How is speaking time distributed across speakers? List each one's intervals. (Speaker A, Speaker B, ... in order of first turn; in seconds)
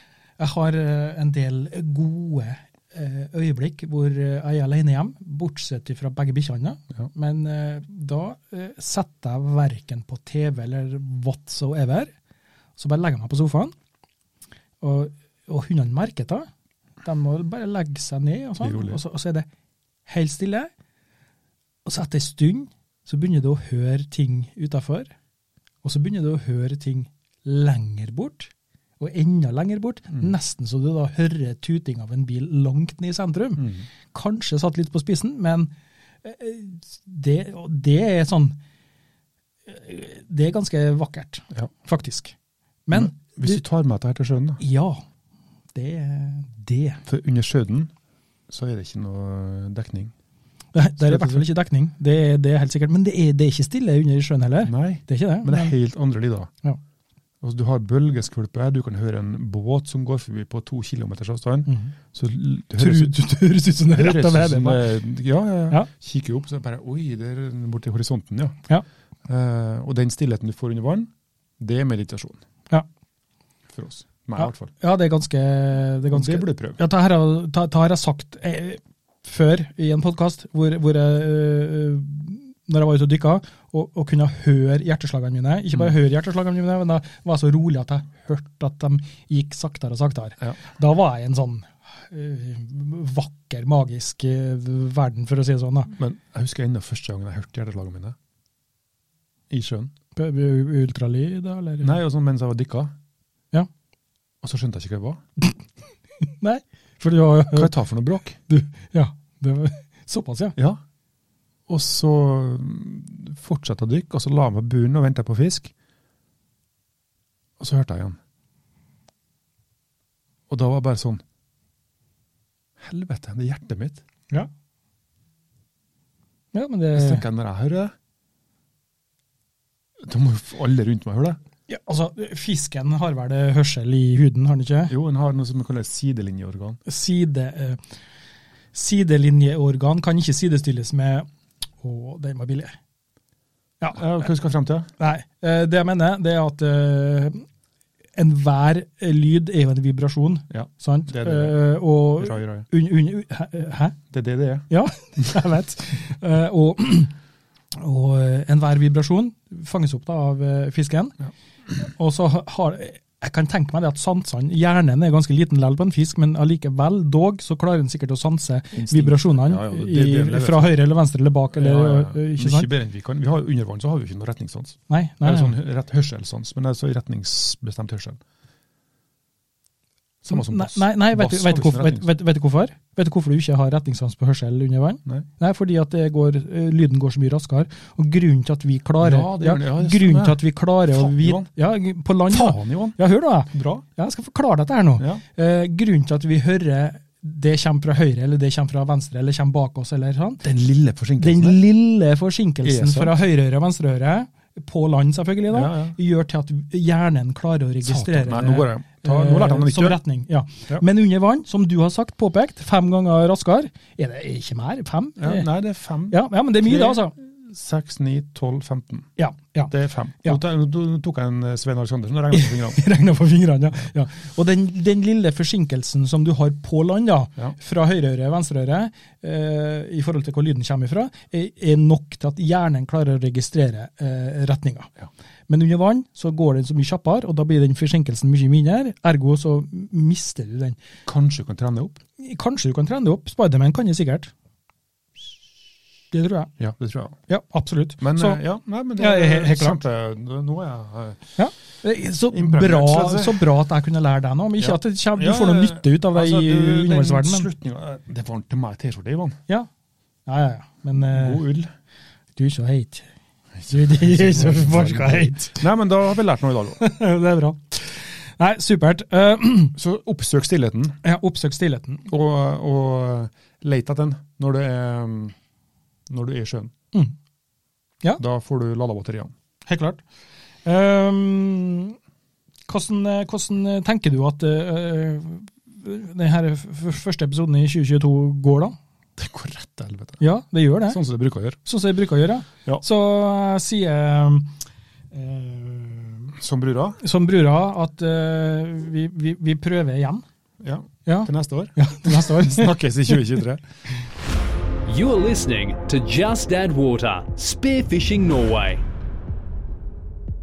Speaker A: 0.4-12.1, 12.8-13.7, 14.8-16.5, 17.0-19.5, 20.1-20.7, 21.9-25.1, 25.8-35.7, 36.2-38.6, 39.7-42.3, 42.9-43.6, 44.6-45.0, 45.8-47.0, 50.7-55.8, 61.7-61.9, 62.8-64.8, 74.4-95.9, 100.2-102.0, 106.2-107.7, 108.5-110.6, 126.5-127.2, 131.7-134.9, 136.9-137.8, 138.7-141.3, 141.8-142.8, 145.0-147.4, 148.2-154.0, 154.7-157.1, 157.7-161.2, 161.8-172.7, 174.9-175.5, 180.3-200.4, 201.2-215.5, 216.1-217.1, 219.2-219.7, 222.3-234.9, 235.5-240.8, 242.2-244.3, 246.1-246.5, 247.3-248.4, 249.0-249.8, 251.4-257.5, 260.3-261.4, 262.4-263.1, 263.7-265.6, 266.8-269.8, 271.0-272.1, 279.7-280.0, 280.6-282.0, 282.7-288.8, 290.2-291.0, 291.6-294.5, 295.1-296.3, 297.0-300.2, 301.1-303.2
Speaker B: 18.6-19.0, 42.9-44.6, 47.1-47.9, 48.5-50.1, 51.0-51.5, 54.6-56.5, 57.4-63.1, 63.9-68.6, 69.3-72.4, 73.7-74.7, 76.1-76.8, 96.0-98.2, 99.5-99.9, 101.8-102.9, 104.4-105.2, 107.5-108.4, 110.6-110.8, 111.7-115.7, 117.6-118.2, 120.5-121.2, 122.8-124.0, 126.9-127.9, 130.0-131.4, 134.9-136.8, 143.9-144.9, 150.5-151.7, 152.2-152.7, 154.1-154.7, 168.7-170.8, 171.6-178.2, 180.2-182.1, 189.0-191.5, 192.3-193.0, 193.5-193.8, 195.0-195.2, 200.4-201.6, 202.6-203.2, 205.5-206.0, 207.8-210.0, 215.2-219.1, 219.7-222.8, 241.1-242.0, 246.6-247.2, 248.0-251.3, 252.3-253.4, 254.6-259.4, 261.0-261.7, 263.6-266.8, 269.8-271.0, 272.1-275.4, 276.1-276.7, 278.2-279.3, 289.2-290.2, 290.9-291.6, 296.4-297.0, 300.6-303.6
Speaker C: 304.9-308.8